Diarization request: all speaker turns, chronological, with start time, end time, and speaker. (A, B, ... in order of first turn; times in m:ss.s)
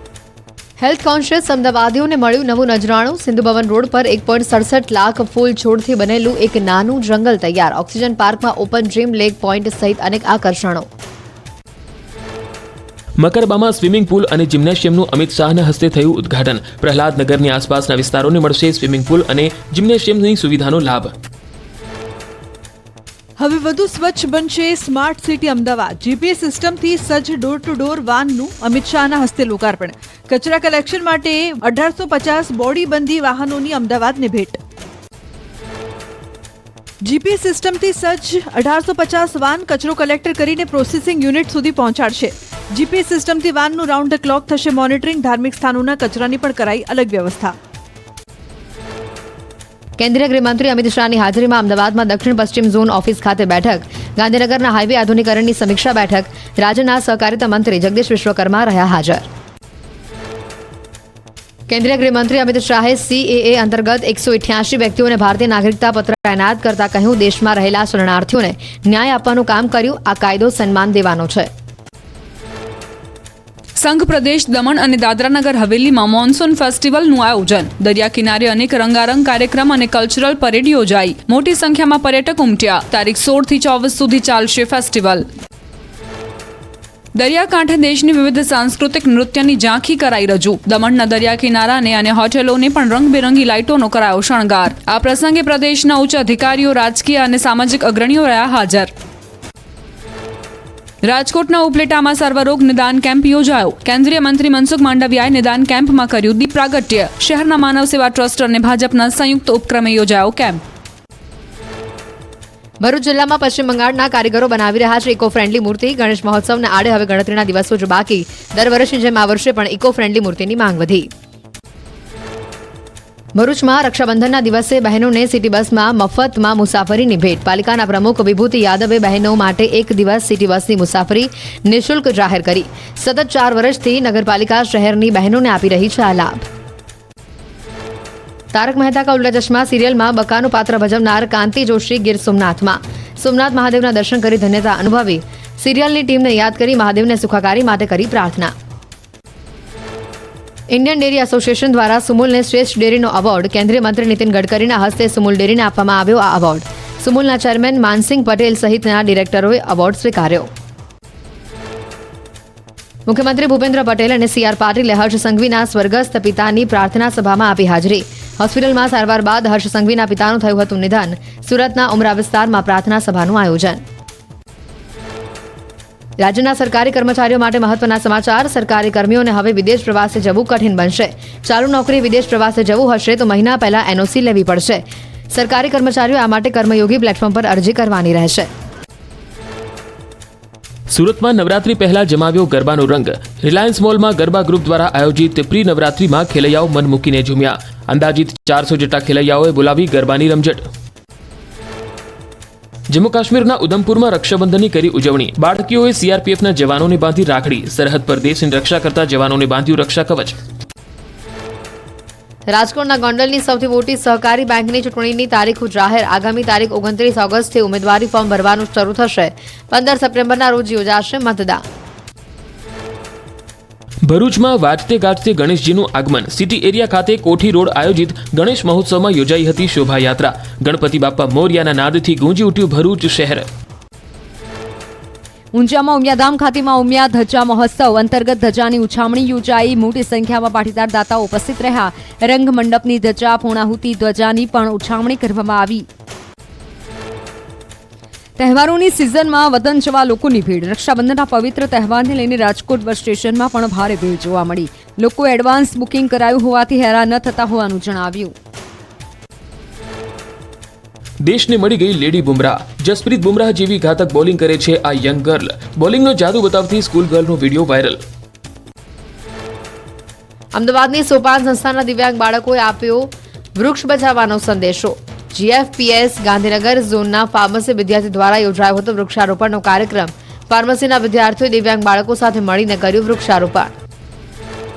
0:00.8-0:10.9 A
0:13.2-0:21.1 B
0:23.4-0:34.6 C
0:37.0-0:47.6 C
0:50.0-0:59.3 A
1:01.7-1:11.5 A
1:13.8-1:25.3 D
1:27.2-1:38.9 D
1:41.0-1:50.6 D
1:52.8-2:01.1 A
2:03.4-2:16.5 A
2:18.5-2:28.5 A
2:30.7-2:40.5 A
2:43.1-2:53.8 A
2:56.2-3:08.5 A
3:10.9-3:20.6 B
3:22.9-3:30.3 B
3:32.5-3:41.6 A
3:44.1-3:53.5 B
3:55.5-4:05.9 E
4:08.4-4:18.4 E
4:21.2-4:28.0 B
4:30.5-4:43.7 A